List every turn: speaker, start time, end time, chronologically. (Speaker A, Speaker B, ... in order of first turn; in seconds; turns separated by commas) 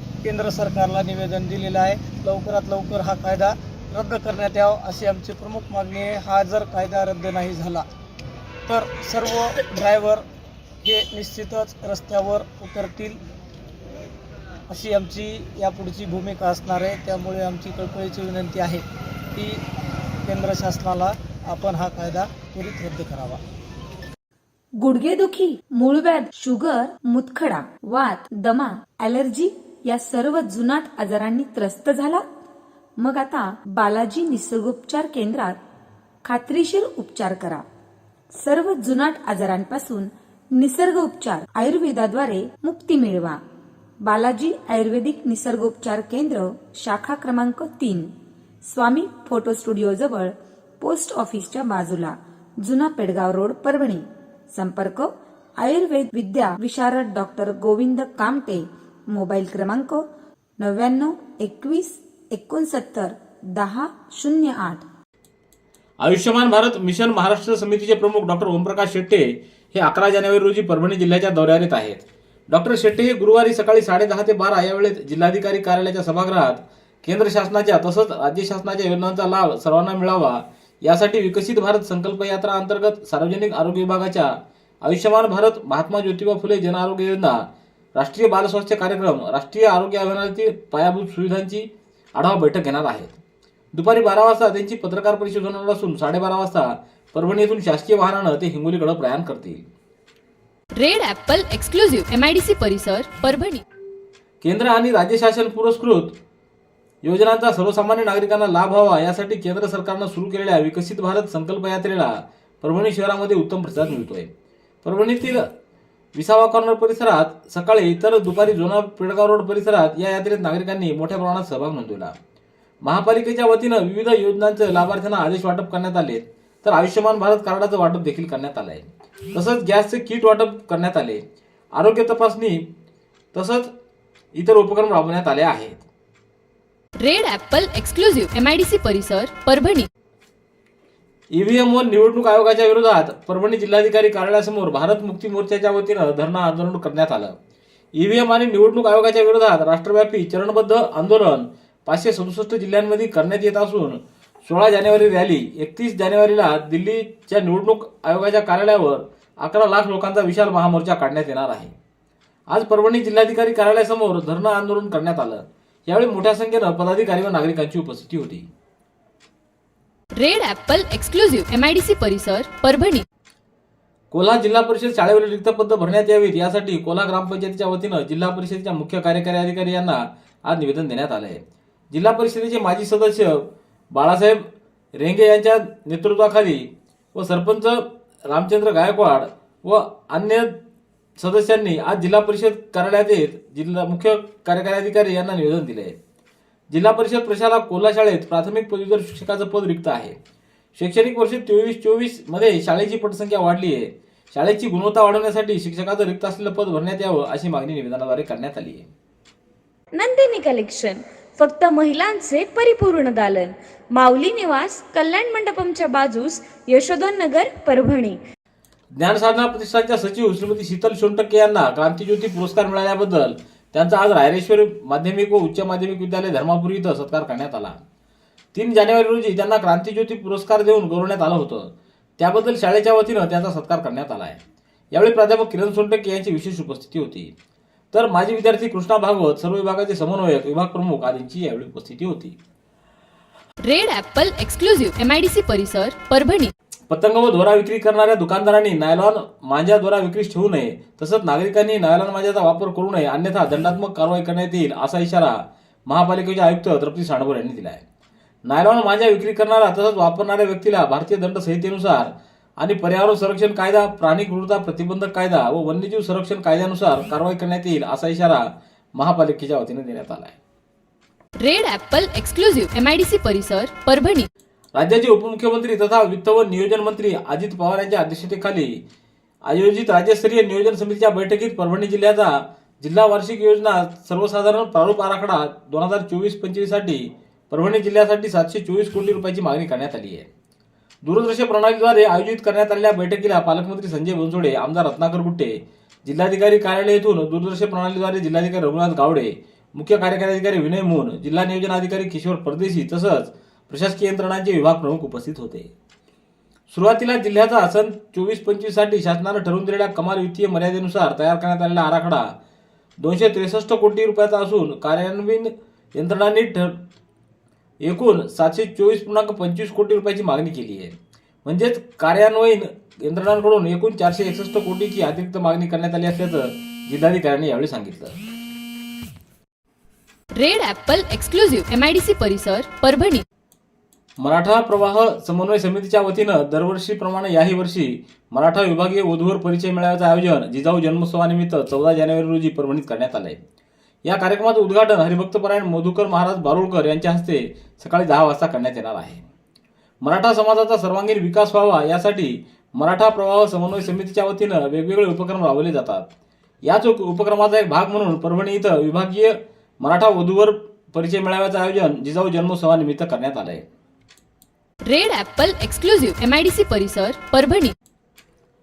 Speaker A: 0.2-7.8, Speaker A: 8.7-10.2, Speaker A: 10.8-13.2, Speaker A: 14.7-18.8, Speaker A: 19.3-19.6, Speaker A: 20.2-23.4, Speaker B: 24.8-32.2, Speaker B: 33.0-35.6, Speaker B: 36.2-37.6, Speaker B: 38.4-43.4, Speaker B: 44.0-48.1, Speaker B: 48.7-55.1, Speaker B: 55.6-60.0, Speaker B: 60.6-64.8, Speaker C: 66.0-87.4, Speaker C: 88.0-93.2, Speaker C: 93.7-99.7, Speaker D: 100.8-103.6, Speaker C: 104.4-106.2, Speaker C: 107.0-114.3, Speaker C: 114.8-115.5, Speaker C: 116.2-122.2, Speaker C: 122.8-131.2, Speaker C: 131.7-132.7, Speaker C: 133.3-133.7, Speaker C: 134.3-135.9, Speaker D: 137.0-139.9, Speaker C: 141.3-147.4, Speaker C: 148.0-161.7, Speaker C: 162.5-168.5, Speaker D: 170.2-173.1, Speaker C: 174.1-181.4, Speaker C: 181.9-184.4, Speaker C: 185.0-190.6, Speaker C: 191.2-196.0, Speaker C: 196.7-200.2, Speaker C: 200.8-208.9, Speaker E: 209.9-218.2, Speaker C: 219.0-227.8, Speaker C: 228.5-234.4, Speaker C: 234.9-237.3, Speaker C: 237.9-242.4, Speaker D: 243.6-246.5, Speaker C: 246.9-257.8, Speaker C: 258.4-268.4, Speaker C: 268.9-270.4, Speaker D: 271.4-274.3, Speaker C: 274.8-278.8, Speaker C: 279.5-290.3, Speaker C: 291.0-305.7, Speaker C: 306.7-312.3, Speaker C: 313.0-316.8, Speaker C: 317.8-328.2, Speaker D: 330.4-333.2, Speaker C: 334.2-343.4, Speaker C: 344.0-349.2, Speaker C: 350.0-356.1, Speaker C: 356.6-363.6, Speaker D: 364.9-367.8